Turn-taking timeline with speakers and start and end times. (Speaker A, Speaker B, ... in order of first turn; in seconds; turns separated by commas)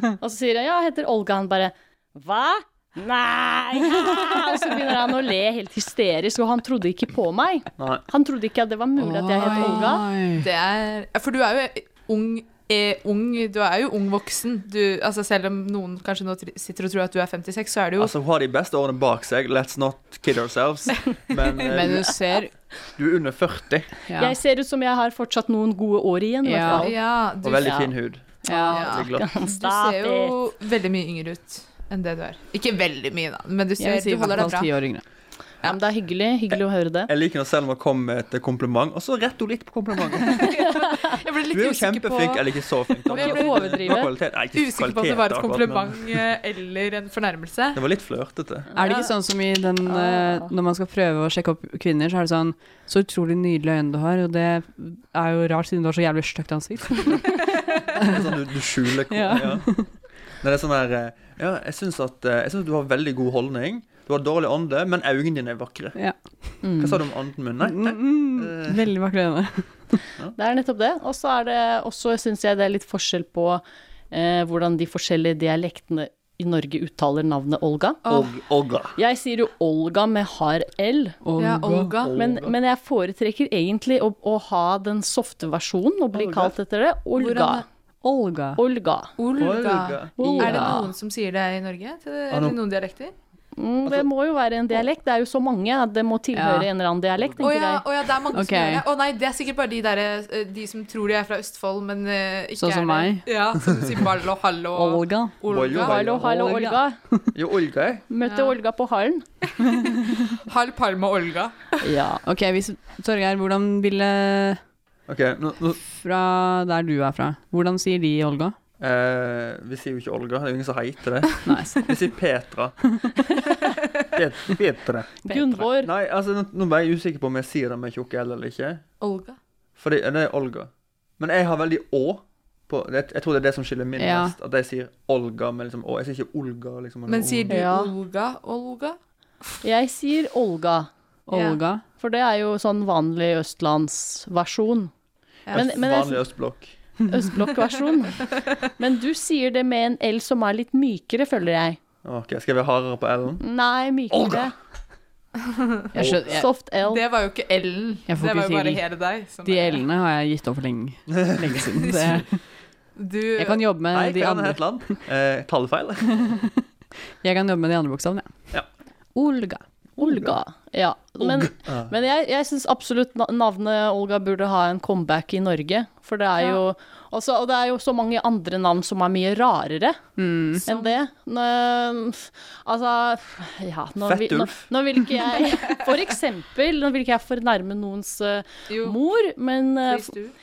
Speaker A: 0.2-10.0, Speaker B: 7.8-8.0, Speaker C: 9.0-10.4, Speaker D: 9.5-9.8, Speaker D: 10.4-18.1, Speaker B: 18.0-22.2, Speaker C: 21.7-22.5, Speaker B: 22.9-23.9, Speaker C: 24.1-24.3, Speaker A: 24.2-27.0, Speaker C: 26.4-26.8, Speaker D: 26.7-27.8, Speaker B: 27.4-29.2, Speaker A: 27.6-27.9, Speaker A: 28.4-30.4, Speaker C: 28.4-28.8, Speaker D: 28.7-34.7, Speaker C: 33.8-35.0, Speaker A: 35.6-37.1, Speaker B: 36.5-40.6, Speaker D: 40.5-42.4, Speaker B: 41.5-46.2, Speaker D: 43.1-47.8, Speaker A: 43.1-44.1, Speaker B: 47.7-48.7, Speaker A: 48.8-49.1, Speaker C: 48.8-57.5, Speaker A: 49.9-50.5, Speaker B: 58.0-59.8, Speaker C: 59.1-59.9, Speaker B: 60.4-66.0, Speaker C: 66.0-66.6, Speaker A: 66.6-67.0, Speaker B: 66.8-68.8, Speaker C: 67.6-70.0, Speaker A: 70.3-78.0, Speaker B: 78.0-79.0, Speaker A: 79.0-81.2, Speaker C: 81.2-81.9, Speaker D: 81.4-82.2, Speaker B: 82.0-82.5, Speaker A: 82.2-87.6, Speaker B: 86.1-86.5, Speaker D: 87.2-87.6, Speaker C: 88.0-88.6, Speaker A: 88.6-89.1, Speaker D: 89.2-93.1, Speaker B: 89.3-90.4, Speaker A: 90.2-90.8, Speaker C: 90.4-90.8, Speaker B: 92.3-92.6, Speaker A: 93.6-97.8, Speaker C: 96.3-96.7, Speaker D: 97.4-106.1, Speaker C: 98.3-98.8, Speaker C: 102.6-103.2, Speaker C: 104.7-105.3, Speaker B: 105.5-106.6, Speaker A: 105.7-107.0, Speaker C: 106.2-107.2, Speaker B: 107.3-108.0, Speaker A: 108.1-109.2, Speaker D: 108.2-108.5, Speaker D: 110.4-111.6, Speaker A: 111.8-112.2, Speaker C: 112.2-114.6, Speaker B: 115.1-115.8, Speaker C: 116.0-118.5, Speaker B: 118.8-122.8, Speaker C: 121.5-121.8, Speaker B: 124.1-128.8, Speaker A: 125.3-125.9, Speaker D: 129.0-129.4, Speaker B: 129.8-137.6, Speaker C: 134.0-134.3, Speaker D: 137.1-139.0, Speaker A: 137.5-137.9, Speaker A: 139.6-140.9, Speaker C: 141.3-141.8, Speaker A: 142.0-144.9, Speaker A: 145.5-146.2, Speaker B: 145.5-146.7, Speaker A: 147.1-148.2, Speaker A: 148.8-151.8, Speaker B: 152.0-153.4, Speaker A: 153.4-154.5, Speaker B: 154.1-154.5, Speaker C: 155.9-156.5, Speaker B: 155.9-156.3, Speaker A: 156.2-157.0, Speaker D: 156.8-159.8, Speaker C: 158.1-158.8, Speaker C: 159.4-162.4, Speaker B: 161.1-162.2, Speaker D: 161.9-162.2, Speaker D: 162.9-163.6, Speaker C: 163.4-165.0, Speaker B: 163.9-166.4, Speaker C: 166.2-166.5, Speaker C: 167.2-168.3, Speaker C: 169.2-169.6, Speaker A: 170.0-180.0, Speaker B: 170.0-170.3, Speaker B: 171.2-171.9, Speaker C: 180.2-180.6, Speaker A: 180.6-190.1, Speaker B: 184.0-184.7, Speaker D: 188.7-189.0, Speaker D: 189.8-190.3